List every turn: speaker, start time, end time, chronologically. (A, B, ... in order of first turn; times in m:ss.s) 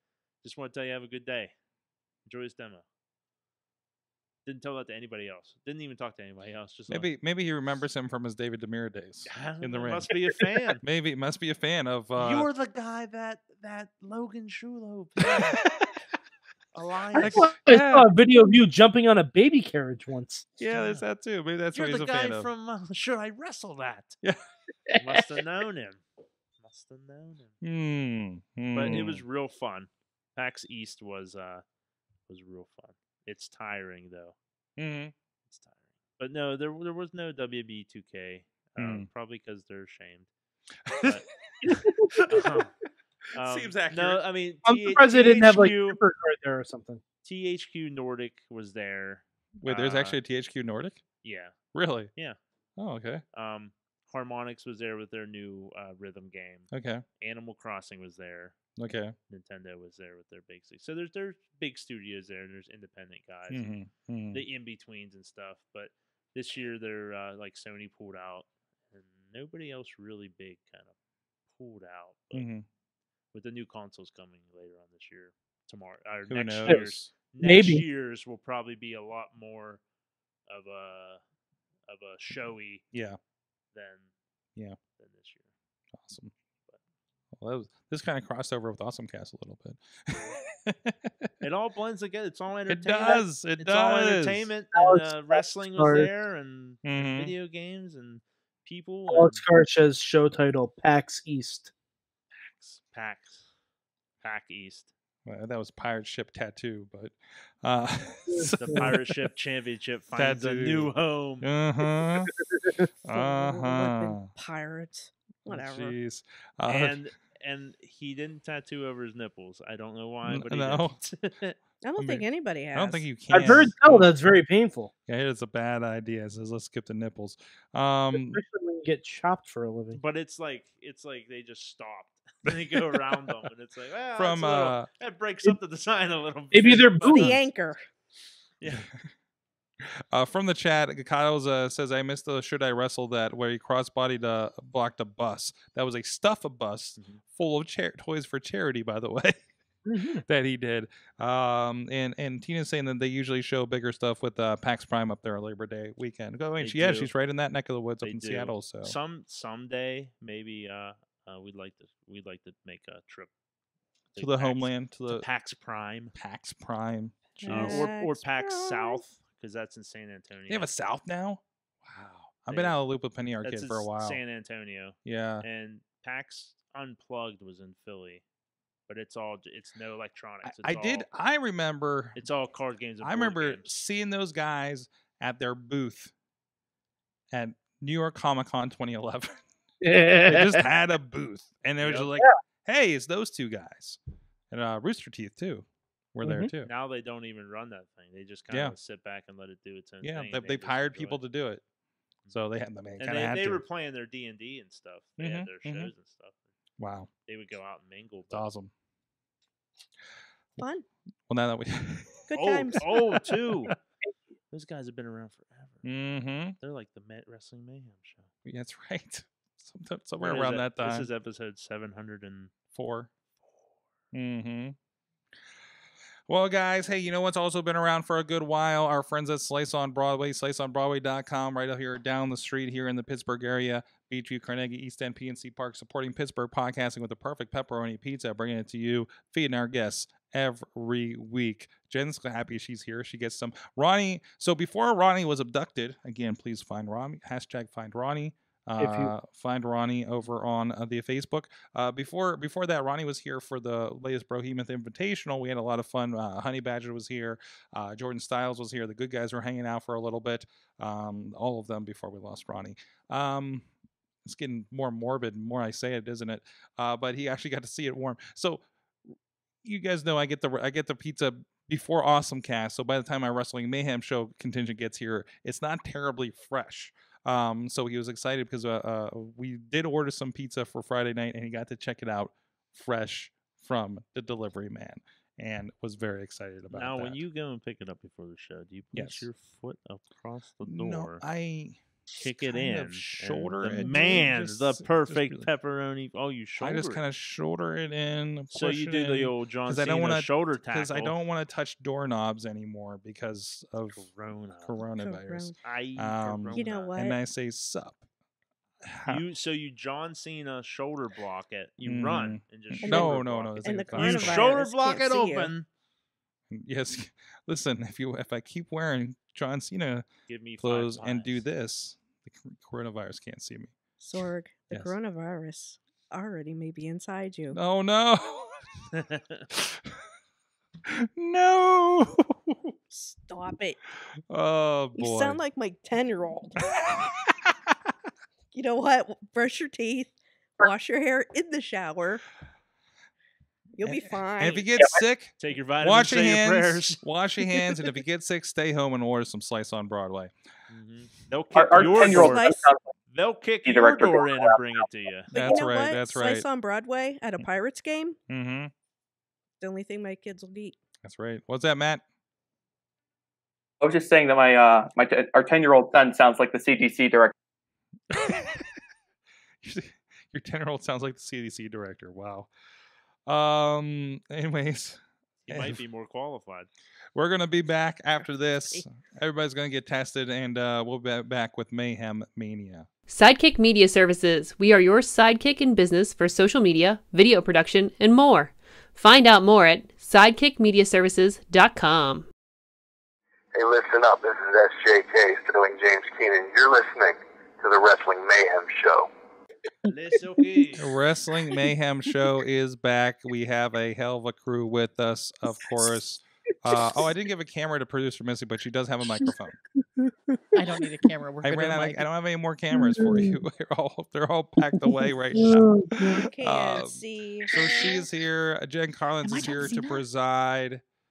0:00.4-0:01.5 A
0:02.2-0:02.8 A
0:04.4-0:07.1 A
0:06.9-0:10.1 B
0:09.3-0:10.8 A
0:10.8-0:12.5 B
0:12.2-0:15.6 A
0:16.7-0:17.5 A
0:17.2-0:20.5 C
0:17.2-0:18.1 B
0:20.6-0:22.5 B
0:20.7-0:21.0 A
0:21.7-0:24.2 A
0:24.9-0:25.3 C
0:25.0-0:26.0 A
0:26.6-0:27.6 A
0:27.6-0:29.2 B
0:28.7-0:31.6 A
0:32.3-0:34.4 A
0:34.8-0:35.1 B
0:35.5-0:40.3 A
0:38.8-0:39.1 B
0:40.9-0:41.3 A
0:41.7-0:42.0 C
0:42.3-0:42.7 A
0:43.4-0:46.0 A
0:43.4-0:44.2 B
0:44.6-0:47.0 C
0:47.2-0:50.2 A
0:49.6-0:51.0 B
0:51.2-0:51.6 A
0:51.7-0:52.1 B
0:52.8-0:53.2 B
0:53.3-0:58.6 A
0:56.7-0:57.0 B
0:58.8-0:59.2 B
0:59.3-1:03.7 A
1:03.5-1:04.4 B
1:04.3-1:10.9 A
1:11.5-1:12.5 A
1:12.3-1:12.6 B
1:13.3-1:19.8 A
1:16.3-1:17.1 B
1:17.4-1:17.8 C
1:20.5-1:21.2 A
1:21.9-1:22.9 A
1:22.9-1:23.2 B
1:23.7-1:24.1 A
1:25.0-1:25.5 A
1:26.0-1:26.3 B
1:27.4-1:31.1 B
1:31.4-1:39.5 A
1:32.7-1:34.5 B
1:34.8-1:36.1 C
1:36.8-1:37.3 B
1:39.1-1:41.7 C
1:42.3-1:43.5 A
1:44.2-1:44.9 A
1:45.3-1:49.1 B
1:48.3-1:48.9 C
1:48.6-1:51.5 A
1:50.2-1:52.3 B
1:52.4-1:52.9 C
1:53.1-1:54.3 B
1:53.1-1:56.0 D
1:55.5-1:57.0 B
1:56.7-2:01.6 A
2:00.2-2:01.0 B
2:01.8-2:03.1 D
2:02.0-2:04.3 B
2:03.3-2:04.9 C
2:05.1-2:08.4 B
2:08.1-2:10.0 C
2:09.9-2:17.4 A
2:12.4-2:13.4 B
2:14.2-2:14.9 B
2:16.5-2:17.4 C
2:17.0-2:17.8 D
2:18.6-2:18.9 A
2:20.1-2:29.4 B
2:29.9-2:30.2 C
2:30.3-2:39.0 B
2:36.6-2:37.1 A
2:38.0-2:43.3 A
2:44.1-2:46.2 A
2:44.2-2:45.3 B
2:46.2-2:47.9 B
2:47.4-2:49.0 D
2:47.5-2:50.7 A
2:50.5-2:54.2 B
2:52.5-2:52.8 A
2:53.4-2:58.2 A
2:55.0-2:55.4 B
2:58.9-3:01.1 A
3:00.4-3:02.2 B
3:02.2-3:03.8 A
3:03.0-3:06.1 B
3:07.3-3:09.4 B
3:09.8-3:10.7 C
3:10.3-3:14.0 B
3:11.8-3:12.1 A
3:14.5-3:16.7 B
3:16.2-3:16.5 C
3:16.6-3:21.2 A
3:18.5-3:18.8 B
3:20.0-3:21.6 B
3:22.3-3:23.6 B
3:23.0-3:26.4 A
3:25.2-3:25.9 B
3:26.8-3:27.1 B
3:27.3-3:28.5 A
3:28.3-3:28.7 B
3:30.6-3:30.9 D
3:31.3-3:32.3 B
3:32.3-3:32.8 D
3:32.3-3:33.7 A
3:34.5-3:35.9 A
3:35.8-3:36.6 B
3:36.6-3:38.3 A
3:38.4-3:41.1 B
3:40.2-3:42.5 A
3:42.7-3:43.1 B
3:44.1-3:44.8 B
3:46.3-4:23.7 B
4:08.8-4:09.1 C
4:24.2-4:28.6 B
4:29.6-4:47.2 B
4:46.7-4:51.2 A
4:48.9-4:49.3 B
4:50.7-4:55.5 B
4:52.2-4:57.0 A
4:56.6-5:04.0 B
4:58.5-5:01.1 A
5:03.9-5:04.8 A
5:04.6-5:08.0 B
5:05.0-5:05.6 D
5:05.6-5:06.9 A
5:06.5-5:07.2 D
5:08.8-5:09.2 B
5:09.1-5:15.7 A
5:11.8-5:14.6 B
5:12.8-5:15.5 D
5:16.5-5:20.1 B
5:20.3-5:21.4 A
5:20.6-5:23.7 B
5:24.0-5:27.6 D
5:27.5-5:28.6 B
5:28.9-5:29.4 A
5:29.5-5:29.9 B
5:30.9-5:32.6 B
5:32.9-5:33.8 D
5:34.3-5:35.4 B
5:35.0-5:36.8 D
5:38.5-5:42.2 D
5:43.8-5:44.7 D
5:43.9-5:50.3 B
5:45.4-5:47.0 A
5:50.7-5:52.5 A
5:51.6-5:52.9 E
5:51.8-5:52.6 D
5:53.1-5:55.3 A
5:53.6-5:54.6 E
5:55.3-5:58.2 D
5:55.3-5:56.5 B
5:58.3-5:58.7 B
5:59.6-6:00.8 D
6:01.0-6:02.0 B
6:03.8-6:07.3 E
6:08.1-6:08.7 B
6:09.6-6:12.5 B
6:13.3-6:15.8 B
6:15.4-6:16.7 A
6:17.2-6:22.9 B
6:23.1-6:32.3 F
6:33.6-6:39.1 G
6:39.9-6:41.0 A
6:40.8-6:49.6 B
6:50.0-6:50.6 C
6:50.6-6:52.1 H
6:51.4-7:00.8 B
6:52.8-6:53.4 C
6:54.7-6:56.2 C
6:56.2-6:58.1 D
6:59.2-7:00.0 H